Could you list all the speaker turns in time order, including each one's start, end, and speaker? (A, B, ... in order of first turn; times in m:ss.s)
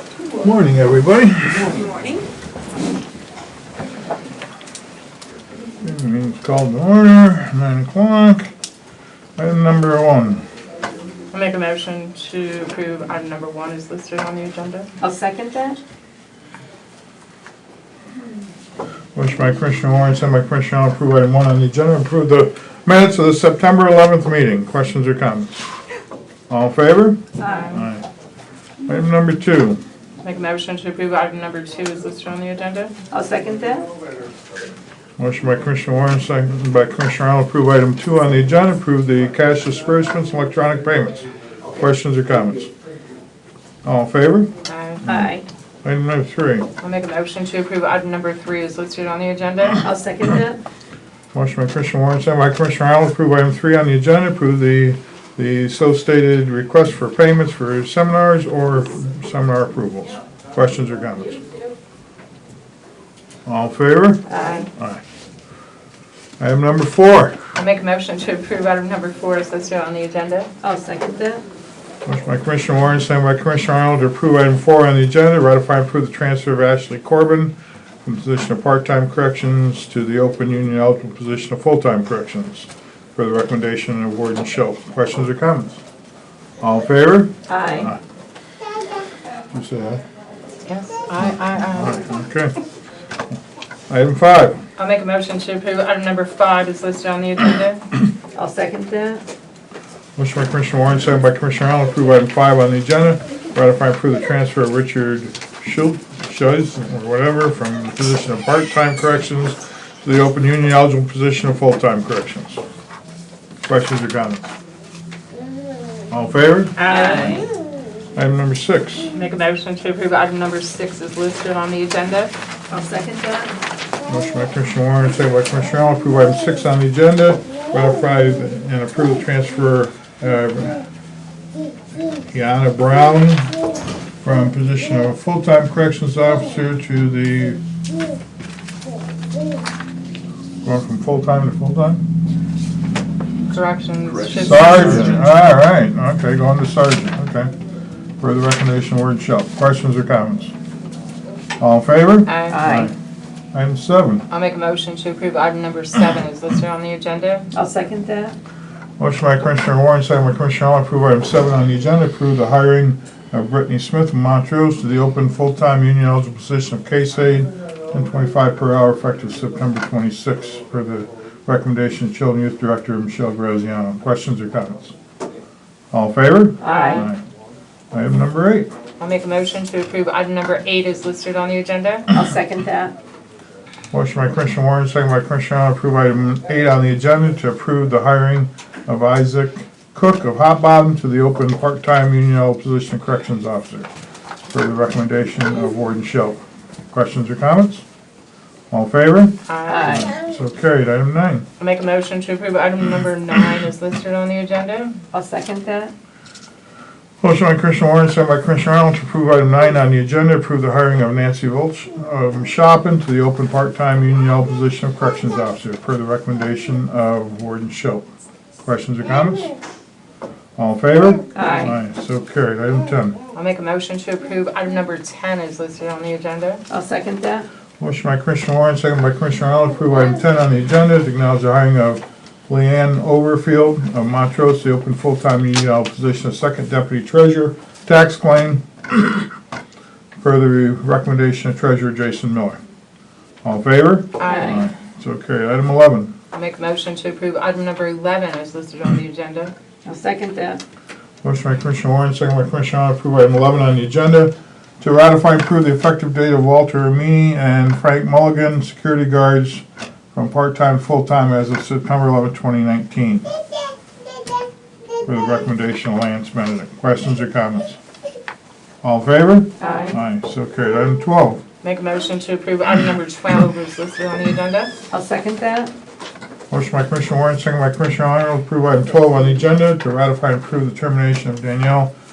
0:00.4-0:01.8 A
0:01.7-0:02.1 B
0:05.8-0:08.5 A
0:09.4-0:10.4 A
0:11.3-0:14.9 B
0:15.0-0:15.8 C
0:19.2-0:25.7 A
0:26.5-0:28.0 A
0:27.4-0:27.7 C
0:27.5-0:27.8 B
0:28.9-0:29.8 A
0:30.2-0:32.9 B
0:33.1-0:33.9 C
0:35.2-0:42.7 A
0:43.8-0:44.5 A
0:44.6-0:45.0 B
0:45.0-0:45.5 C
0:45.8-0:46.7 A
0:46.8-0:49.8 B
0:49.8-0:50.6 C
0:51.3-1:01.4 A
1:03.5-1:05.0 A
1:04.3-1:04.7 C
1:04.4-1:04.7 B
1:06.4-1:07.4 A
1:07.6-1:10.5 B
1:10.6-1:11.4 C
1:12.0-1:25.8 A
1:26.6-1:28.0 A
1:27.5-1:27.9 C
1:29.5-1:30.0 A
1:30.7-1:32.0 B
1:31.7-1:32.6 A
1:33.9-1:34.6 A
1:34.8-1:37.9 B
1:38.4-1:39.2 C
1:40.2-1:52.6 A
1:53.6-1:54.5 A
1:56.1-1:56.8 A
1:56.8-1:57.5 B
1:56.9-1:57.5 C
1:58.2-1:59.1 A
1:59.1-2:02.3 B
2:02.7-2:03.6 C
2:04.1-2:10.8 A
2:12.3-2:13.6 A
2:14.2-2:17.6 A
2:20.6-2:22.0 A
2:23.5-2:25.2 B
2:24.4-2:27.5 A
2:28.2-2:30.5 A
2:31.6-2:32.9 A
2:32.3-2:32.7 B
2:32.5-2:32.9 C
2:33.5-2:34.3 A
2:34.3-2:37.5 B
2:37.5-2:38.4 C
2:39.0-2:55.0 A
2:55.9-2:57.2 A
2:56.6-2:57.1 C
2:56.7-2:57.0 B
2:57.9-2:58.7 A
2:59.0-3:02.1 B
3:02.1-3:03.0 C
3:03.9-3:13.9 A
3:14.5-3:16.4 A
3:16.9-3:17.8 A
3:18.7-3:21.5 A
3:19.5-3:20.0 B
3:19.7-3:20.1 C
3:21.6-3:25.0 B
3:25.1-3:25.9 C
3:27.2-3:38.1 A
3:38.6-3:39.5 A
3:40.6-3:43.2 A
3:41.3-3:41.8 C
3:43.3-3:46.6 B
3:46.7-3:47.5 C
3:47.8-3:59.3 A
4:00.2-4:02.6 A
4:03.4-4:06.1 A
4:04.2-4:04.7 B
4:04.3-4:04.6 C
4:06.3-4:09.5 B
4:09.8-4:10.6 C
4:11.2-4:23.3 A
4:25.0-4:27.8 A
4:28.8-4:31.4 A
4:29.6-4:30.0 C
4:31.6-4:34.8 B
4:34.9-4:35.7 C
4:36.5-4:41.9 A